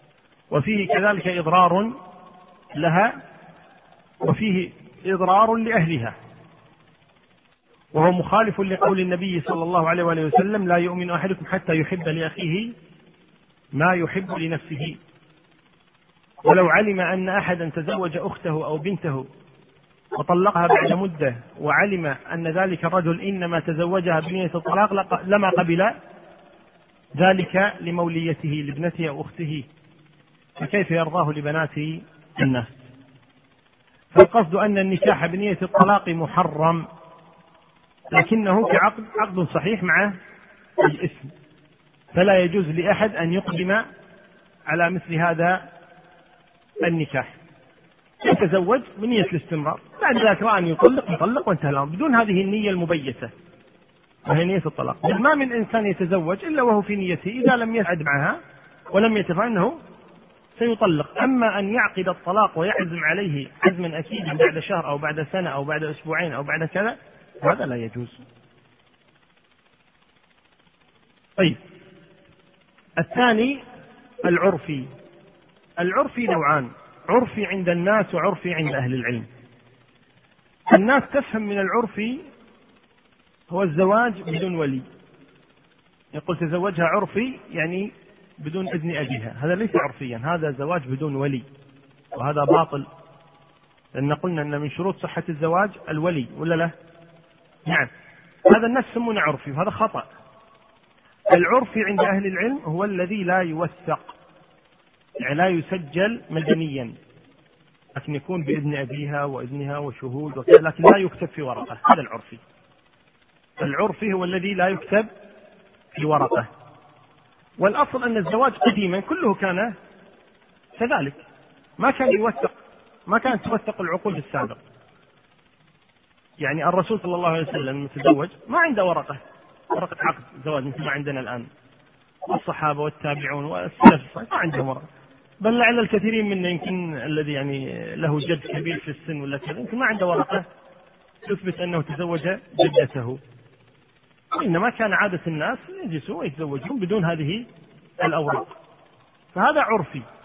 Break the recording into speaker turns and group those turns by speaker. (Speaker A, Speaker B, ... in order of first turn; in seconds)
Speaker A: 0.5-1.9, 2.7-3.1, 4.2-6.1, 7.9-12.7, 13.7-15.0, 16.4-19.2, 20.1-25.9, 27.1-29.7, 30.6-32.8, 34.1-36.9, 38.1-40.1, 40.8-41.3, 42.1-43.8, 44.7-45.6, 46.8-47.3, 48.2-53.3, 54.2-58.4, 58.9-59.8, 60.5-68.2, 73.0-73.6, 74.2-74.9, 75.8-79.3, 80.7-82.2, 83.5-84.8, 86.1-91.4, 92.1-92.8, 93.9-96.7, 98.5-100.1, 101.3-104.1, 105.2-106.9, 107.9-112.4, 113.6-115.1, 115.9-116.5, 117.6-119.7, 120.8-121.2, 121.8-122.5, 123.1-124.6, 126.4-129.2, 129.7-131.5, 132.3-134.8, 135.4-140.4, 141.2-143.2, 144.3-147.4, 148.0-148.5, 149.3-150.0